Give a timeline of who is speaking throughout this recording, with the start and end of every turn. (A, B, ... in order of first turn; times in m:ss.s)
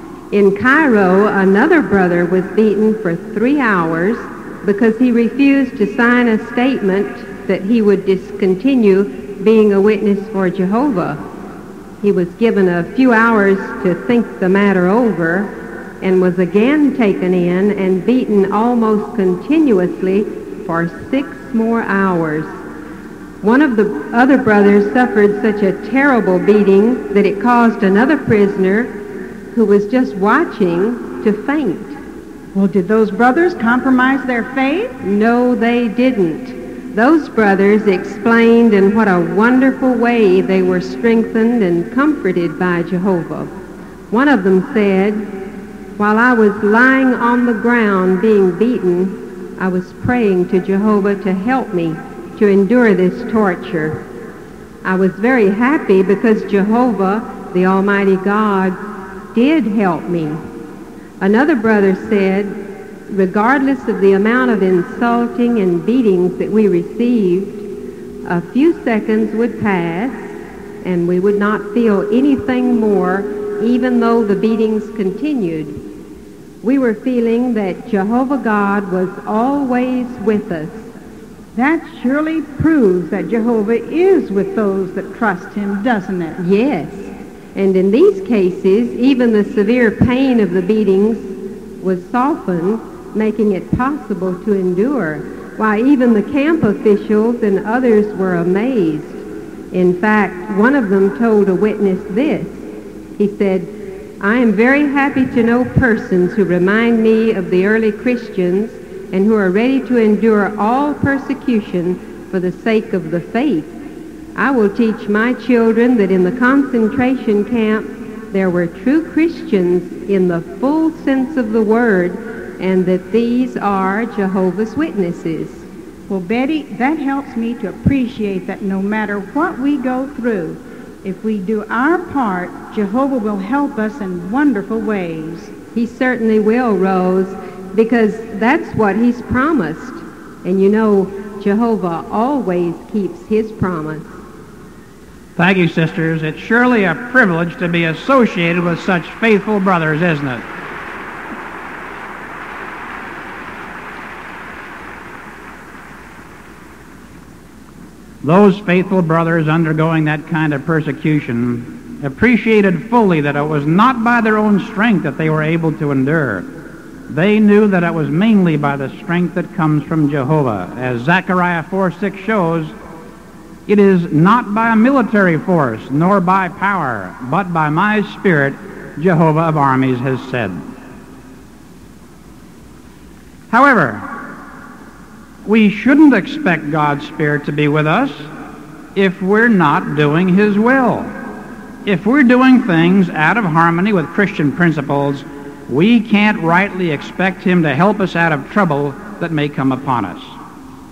0:00.3-0:11.2 A
0:12.0-0:22.5 A
0:23.4-0:29.0 A
0:29.5-0:32.0 A
0:32.5-0:35.0 B
0:35.0-0:43.5 A
0:44.1-0:45.3 A
0:46.0-0:54.0 A
0:54.8-0:58.8 A
0:59.3-1:00.4 A
1:01.2-1:07.7 A
1:08.2-1:10.3 A
1:10.8-1:15.8 A
1:16.6-1:20.9 A
1:21.5-1:26.4 B
1:26.4-1:39.2 A
1:39.7-1:42.7 A
1:43.2-1:53.7 A
1:54.4-2:05.6 A
2:06.1-2:15.5 B
2:15.7-2:24.1 A
2:25.4-2:30.4 C
2:38.2-2:46.5 C
2:47.1-2:52.7 C
2:53.7-3:00.6 C
3:03.5-3:04.3 C
3:05.4-3:08.3 C
3:09.0-3:11.1 C
3:11.8-3:20.4 C